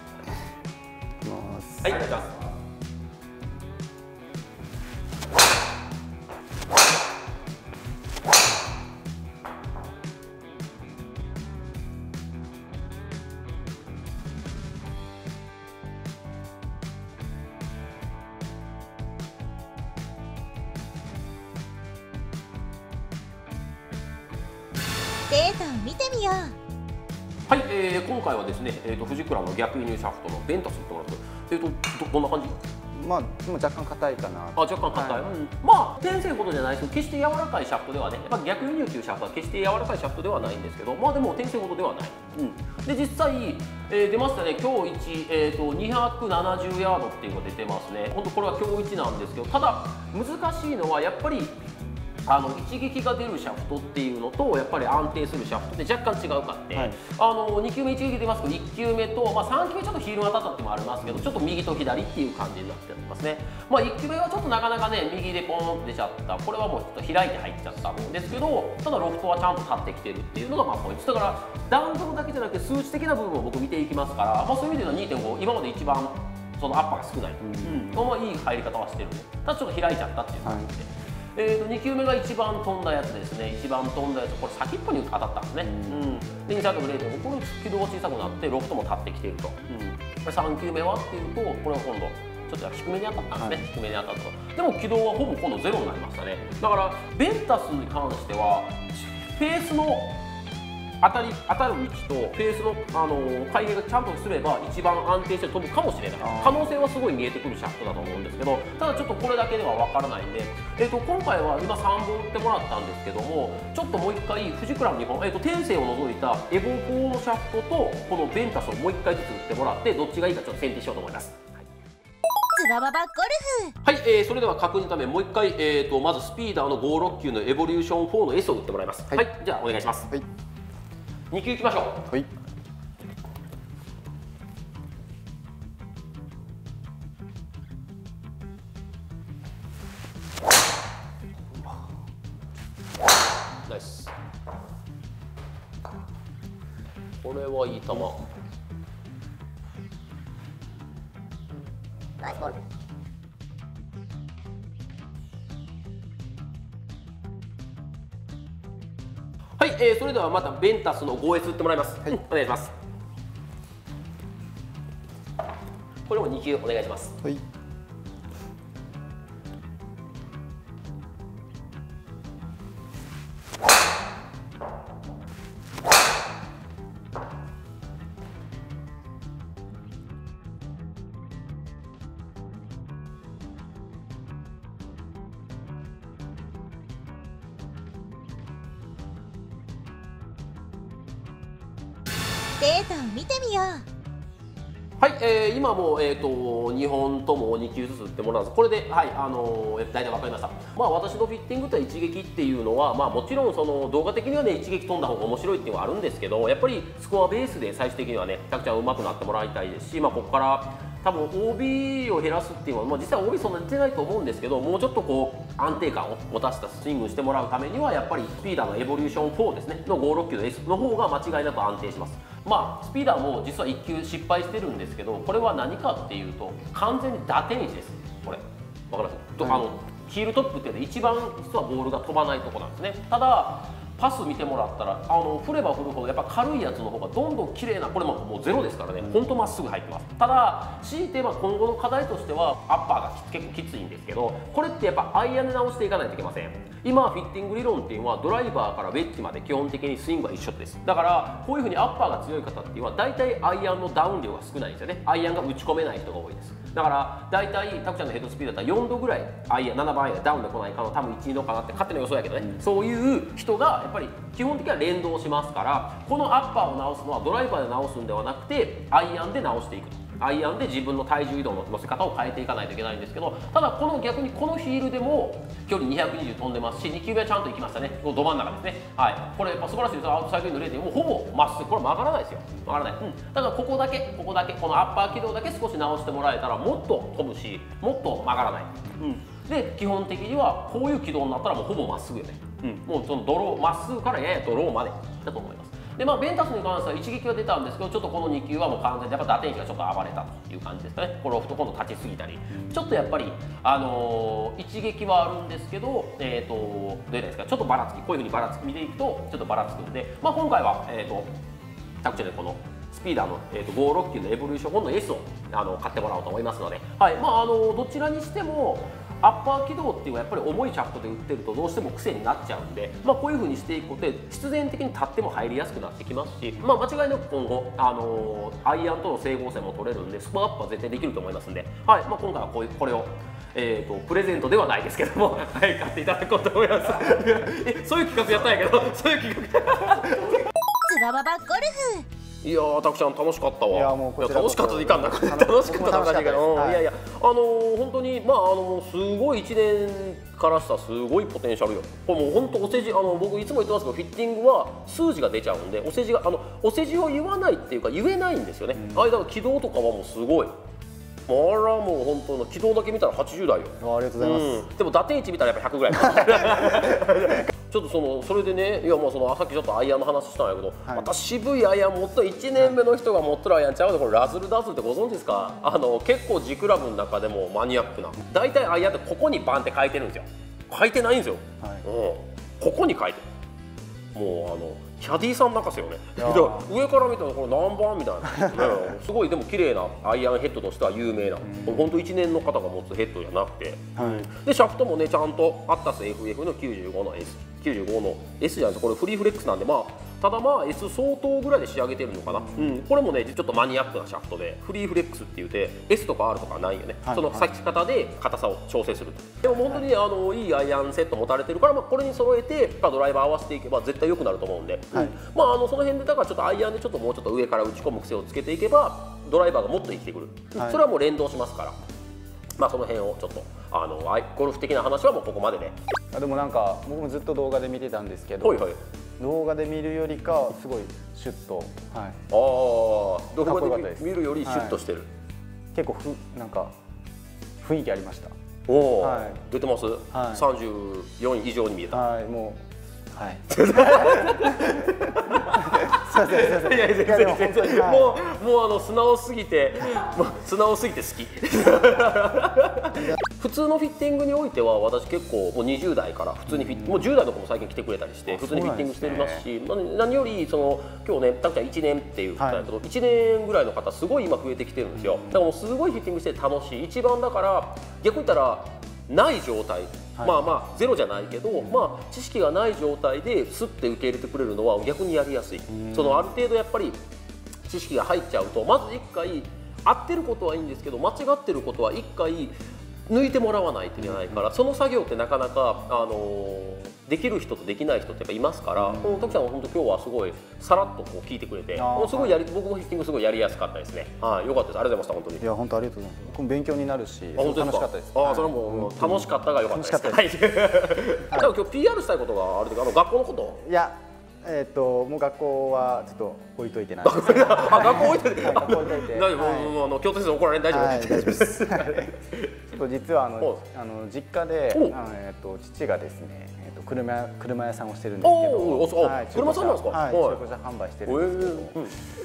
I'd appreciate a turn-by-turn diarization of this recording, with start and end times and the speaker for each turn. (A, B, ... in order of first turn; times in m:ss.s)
0:01.2-0:02.0 A
0:01.8-0:02.3 B
0:25.3-0:26.5 C
0:27.5-0:32.6 B
0:32.9-0:35.2 A
0:34.6-0:51.6 B
0:52.2-1:40.2 B
1:17.5-1:18.0 A
1:25.6-1:26.0 A
1:41.0-2:01.6 B
1:46.2-1:46.7 A
2:02.5-2:03.7 C
2:03.8-2:10.1 B
2:11.3-2:12.1 B
2:23.7-2:24.1 B
2:27.2-2:28.2 B
2:39.6-2:42.7 B
2:46.0-2:47.1 B
3:12.6-3:13.8 C
3:15.0-5:11.4 B
5:12.0-5:40.4 B
5:40.8-5:42.0 C
5:42.4-6:00.6 B
5:43.7-5:46.8 A
6:01.3-6:23.2 B
6:03.8-6:04.6 A
6:06.2-6:06.7 A
6:24.1-7:01.8 B
6:26.2-6:26.7 A
6:31.5-6:31.8 A
6:34.0-6:34.3 A
6:47.0-6:47.4 A
7:02.6-7:05.7 B
7:06.1-7:08.6 A
7:08.4-7:08.8 B
7:09.2-7:12.2 A
7:12.3-7:15.1 B
7:13.4-7:14.8 A
7:15.7-7:16.7 A
7:17.6-7:18.4 A
7:18.7-7:22.0 B
7:19.0-7:19.4 A
7:20.1-7:20.4 A
7:21.9-7:28.2 A
7:23.5-7:57.0 B
7:36.5-7:37.0 A
7:38.3-7:39.4 A
7:42.4-7:42.7 A
7:45.0-7:45.4 A
7:55.7-7:56.3 A
7:57.7-8:02.6 B
8:03.1-8:15.4 B
8:08.8-8:09.4 A
8:11.8-8:12.4 A
8:15.4-8:20.3 A
8:17.4-8:23.6 B
8:23.6-8:29.8 A
8:27.0-8:32.6 B
8:30.7-8:32.1 A
8:32.7-8:41.8 A
8:38.2-8:40.4 B
8:41.1-8:42.0 B